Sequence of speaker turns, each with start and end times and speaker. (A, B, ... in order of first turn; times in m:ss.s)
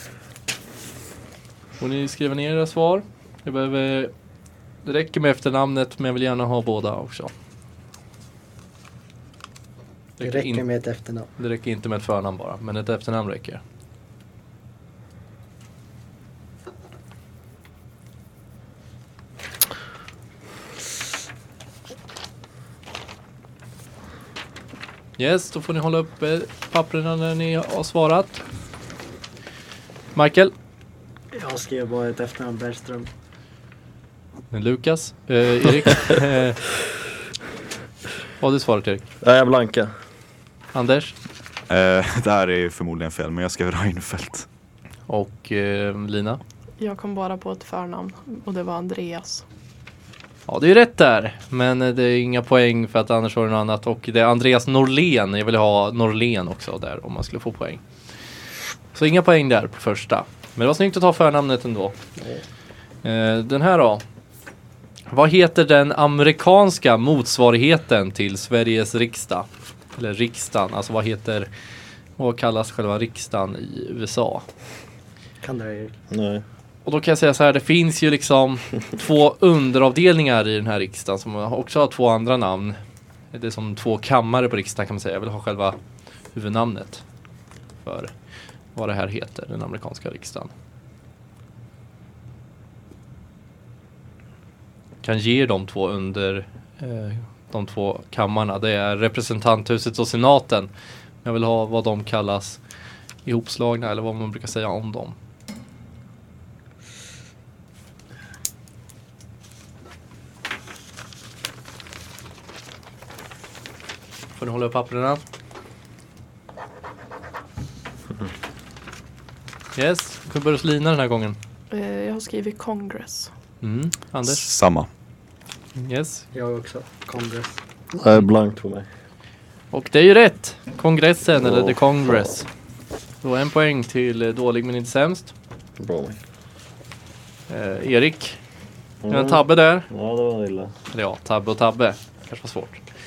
0:01.8-0:04.1 A
0:04.8-0:07.3 A
0:10.2-0:10.6 A
0:10.2-0:11.3 B
0:11.4-0:13.6 A
0:25.2-0:28.4 A
0:30.1-0:30.5 A
0:31.3-0:33.1 B
0:34.5-0:36.6 A
0:38.4-0:39.0 A
0:39.2-0:39.9 C
0:40.7-0:41.1 A
0:41.7-0:44.5 D
0:45.1-0:46.4 A
0:46.8-0:49.4 E
0:50.5-0:57.8 A
0:58.9-1:02.0 A
1:02.2-1:02.4 B
1:03.0-1:04.0 A
1:05.1-1:11.5 A
1:12.2-1:14.4 A
1:15.4-1:16.0 B
1:16.1-1:16.4 C
1:16.8-1:22.8 A
1:23.3-1:25.8 A
1:26.3-1:27.0 A
1:27.8-1:28.1 A
1:28.7-1:30.5 A
1:35.0-1:40.7 A
1:41.2-1:42.6 A
1:43.2-1:45.2 A
1:54.4-1:55.2 A
1:59.7-2:01.4 A
2:01.7-2:03.3 E
2:03.6-2:04.4 A
2:04.2-2:04.9 D
2:05.8-2:06.3 A
2:06.3-2:07.6 B
2:08.0-2:08.9 C
2:09.7-2:12.5 A
2:11.4-2:11.8 C
2:13.2-2:15.3 A
2:15.8-2:16.2 C
2:17.5-2:18.4 A
2:19.0-2:20.7 C
2:19.1-2:19.9 A
2:20.9-2:22.8 A